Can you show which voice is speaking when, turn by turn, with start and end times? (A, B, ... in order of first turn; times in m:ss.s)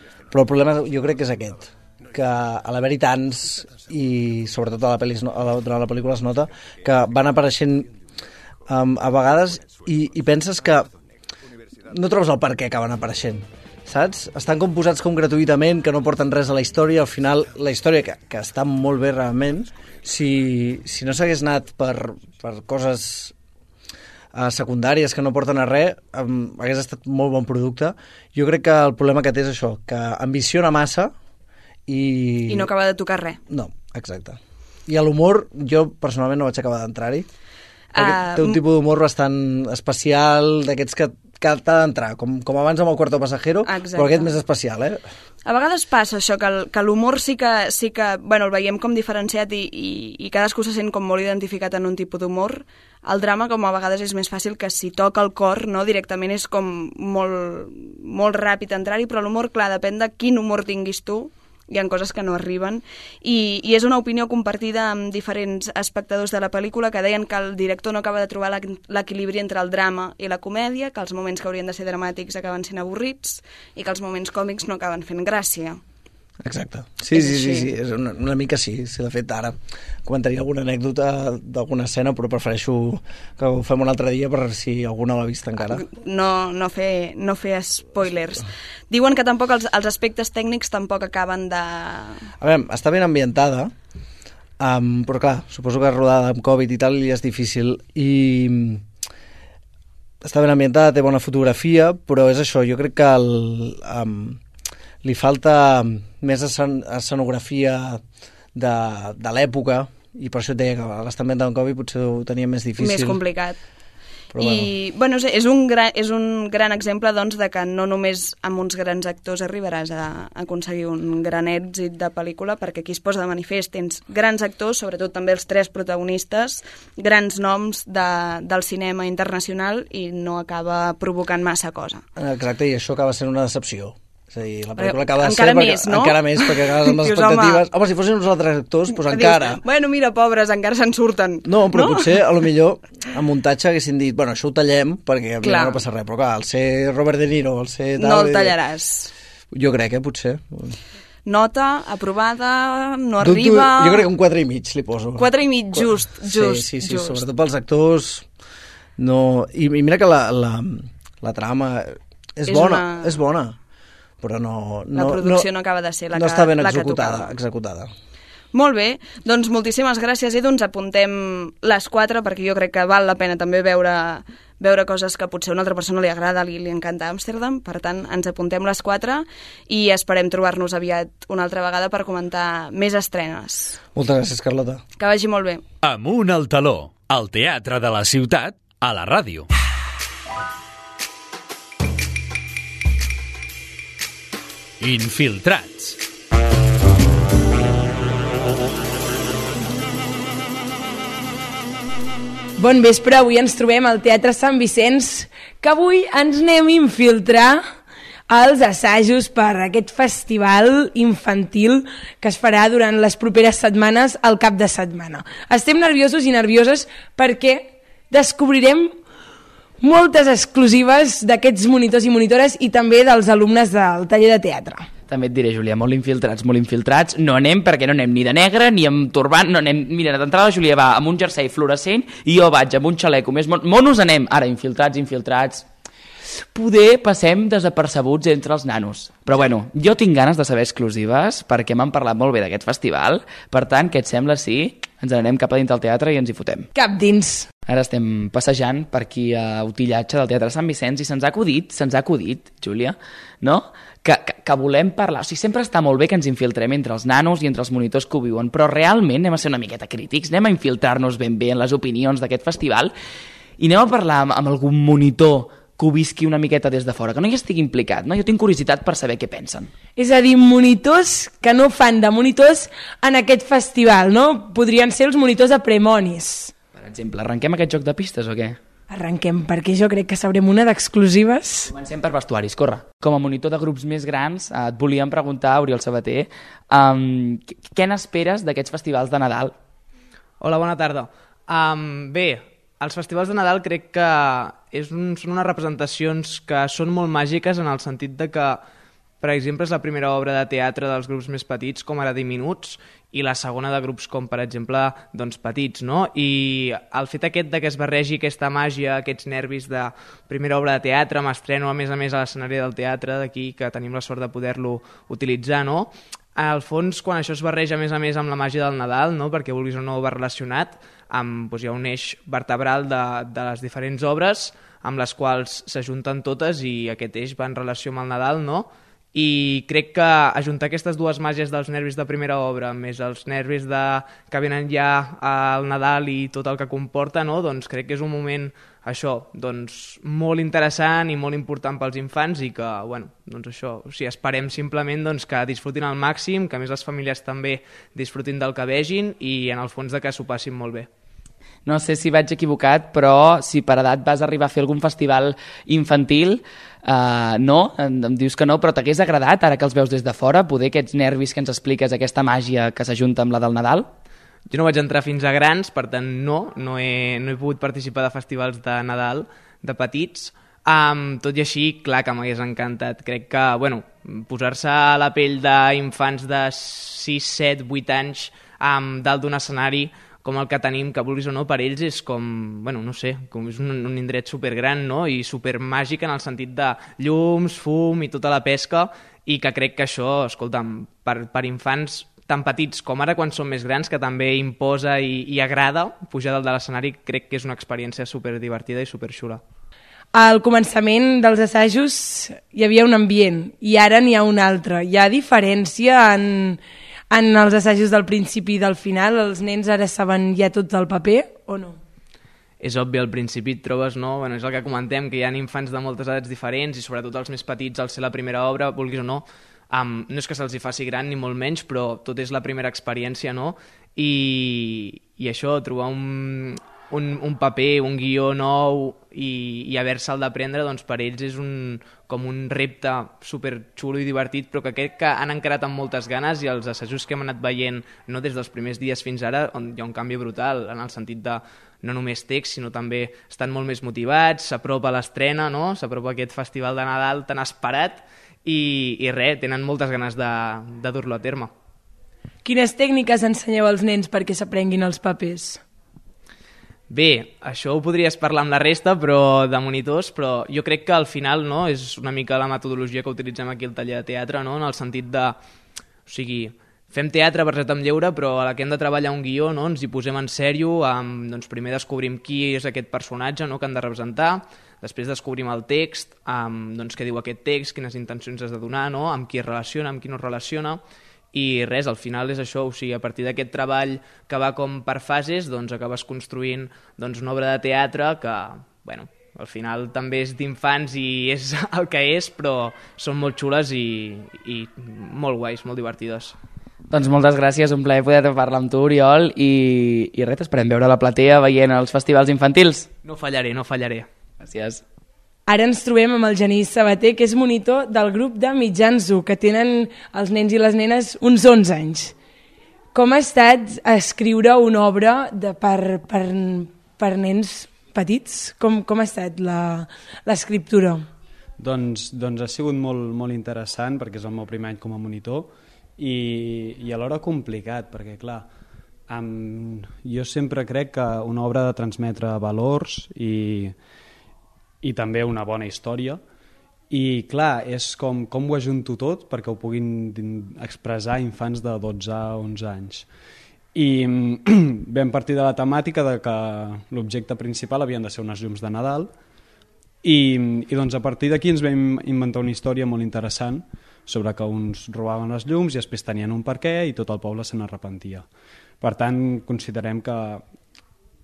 0:00.3-0:07.9 A
0:08.7-0:10.9 A
0:11.9-0:23.3 A
0:24.3-0:31.1 A
0:31.9-0:32.7 A
0:32.5-0:33.4 B
0:33.5-0:37.3 A
0:37.9-0:38.6 B
0:38.0-0:45.0 A
0:43.6-0:44.3 B
0:45.4-1:15.8 B
1:16.4-1:25.8 A
1:17.1-1:17.7 B
1:25.6-1:32.3 B
1:32.4-1:33.7 A
1:34.6-1:38.8 A
1:40.2-1:44.4 A
1:45.0-1:48.0 A
1:48.5-1:53.2 A
1:52.8-1:53.6 B
1:54.3-1:54.7 A
1:54.4-2:12.0 B
2:12.2-2:19.6 A
2:14.8-2:17.6 B
2:18.9-2:22.2 B
2:21.4-2:28.6 A
2:25.4-2:25.8 B
2:28.0-2:29.1 B
2:29.5-2:30.8 A
2:31.2-2:34.0 B
2:33.2-2:38.2 A
2:35.2-2:37.2 B
2:39.0-2:43.5 A
2:42.5-2:43.2 B
2:44.2-2:45.5 A
2:44.9-2:47.3 B
2:46.1-2:47.9 A
2:48.5-3:03.8 B
3:03.9-3:04.8 A
3:05.0-3:05.6 B
3:05.8-3:09.5 C
3:14.8-3:16.0 C
3:22.6-3:27.7 D
3:28.3-3:38.9 D
3:39.8-3:44.9 D
3:45.1-3:55.6 E
3:56.5-4:06.7 E
4:06.7-4:07.5 D
4:07.7-4:22.9 E
4:23.6-4:29.7 E
4:30.0-4:36.5 D
4:36.7-4:38.6 E
4:38.9-4:41.7 D
4:41.7-4:49.5 E
4:50.4-4:58.6 F
4:59.2-5:50.9 F
5:51.6-6:03.9 E
6:04.5-6:39.4 F
6:40.1-6:46.6 D
6:47.1-6:51.8 D
6:52.6-7:31.5 F
7:32.4-7:35.6 D
7:36.9-7:45.4 F
7:46.0-8:00.8 F
8:01.3-8:16.4 F
8:16.9-8:22.9 E
8:23.0-8:24.1 F
8:24.4-8:24.8 E
8:25.5-8:32.1 D
8:32.9-8:41.1 D
8:41.6-8:48.5 G
8:49.1-8:53.8 G
8:54.8-8:56.2 G
8:56.9-9:03.1 G
9:03.7-9:09.1 G
9:10.0-9:18.3 G
9:18.8-9:20.4 G